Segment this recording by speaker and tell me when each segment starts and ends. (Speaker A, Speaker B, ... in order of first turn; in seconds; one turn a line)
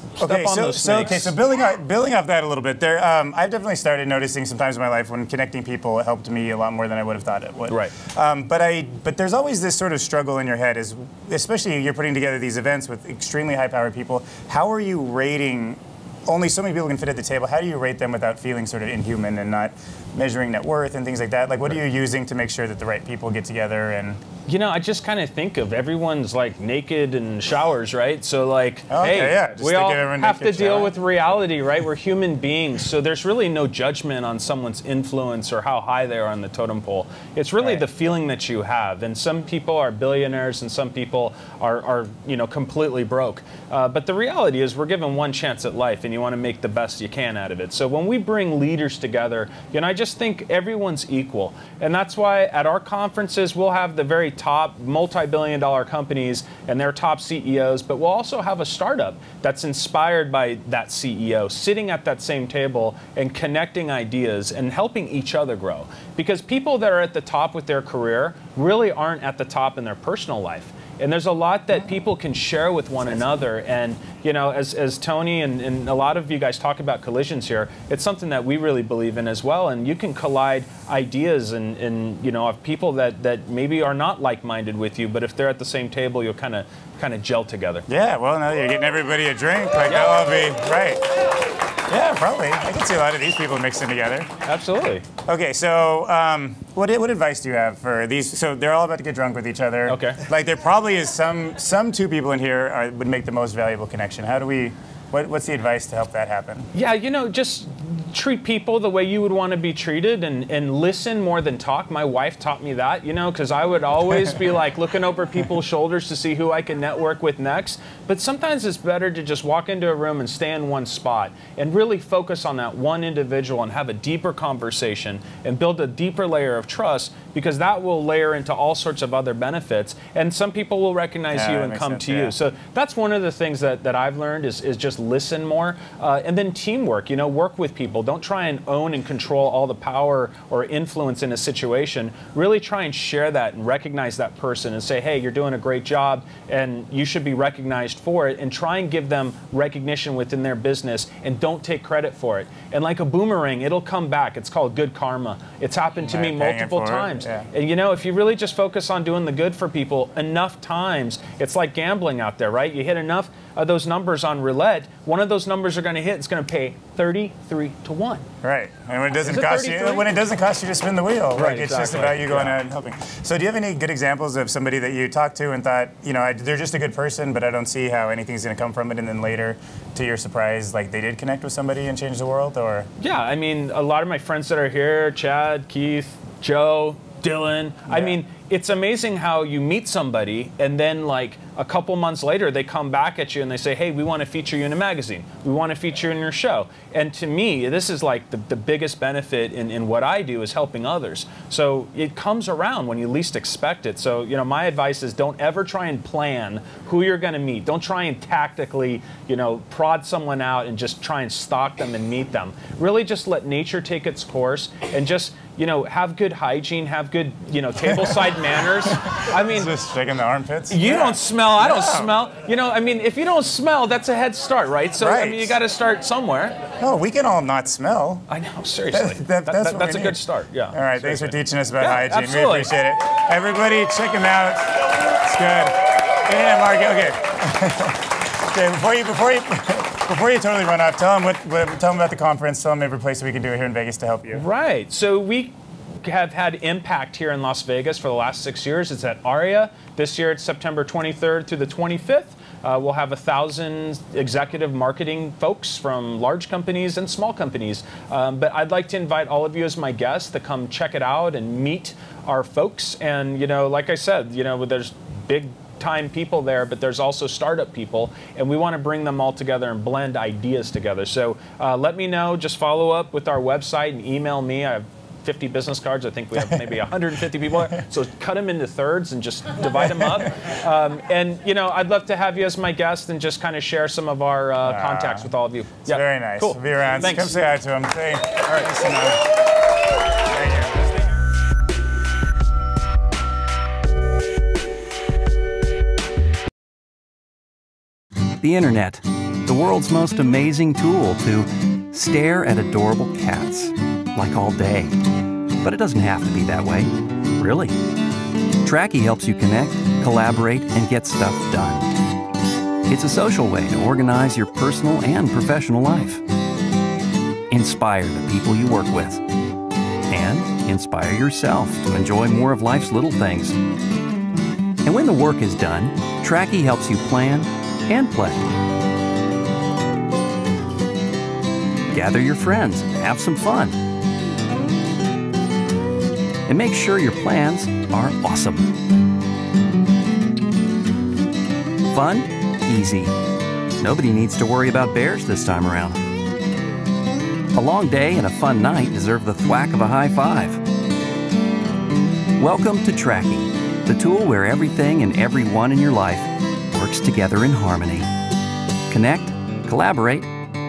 Speaker A: 0.2-1.4
Speaker B: 0.2-24.2
Speaker A: 7.7-7.9
Speaker A: 24.5-87.9
Speaker B: 28.9-31.0
Speaker B: 37.6-37.9
Speaker B: 87.9-91.0
Speaker A: 89.9-90.3
Speaker B: 91.9-94.3
Speaker A: 94.5-95.0
Speaker B: 95.3-106.7
Speaker A: 99.9-100.2
Speaker A: 106.7-168.3
Speaker B: 131.3-132.3
Speaker B: 156.0-157.5
Speaker B: 168.4-182.9
Speaker A: 169.1-170.1
Speaker A: 171.3-172.6
Speaker A: 183.0-219.7
Speaker B: 187.9-188.2
Speaker B: 217.9-218.3
Speaker B: 218.9-222.2
Speaker A: 220.7-226.6
Speaker B: 225.0-225.6
Speaker B: 226.8-228.3
Speaker A: 228.3-232.7
Speaker B: 228.9-244.4
Speaker A: 244.3-287.6
Speaker B: 279.9-280.2
Speaker B: 284.6-285.3
Speaker B: 285.8-289.2
Speaker B: 290.3-291.0
Speaker C: 298.4-305.0
Speaker C: 305.6-307.8
Speaker C: 308.6-311.9
Speaker C: 312.9-316.2
Speaker C: 317.5-319.2
Speaker C: 320.1-323.6
Speaker C: 324.9-328.5
Speaker C: 331.9-333.8
Speaker C: 336.5-338.7
Speaker C: 341.9-343.1
Speaker C: 343.8-346.0
Speaker C: 347.5-350.6
Speaker C: 352.4-358.1
Speaker C: 358.9-360.3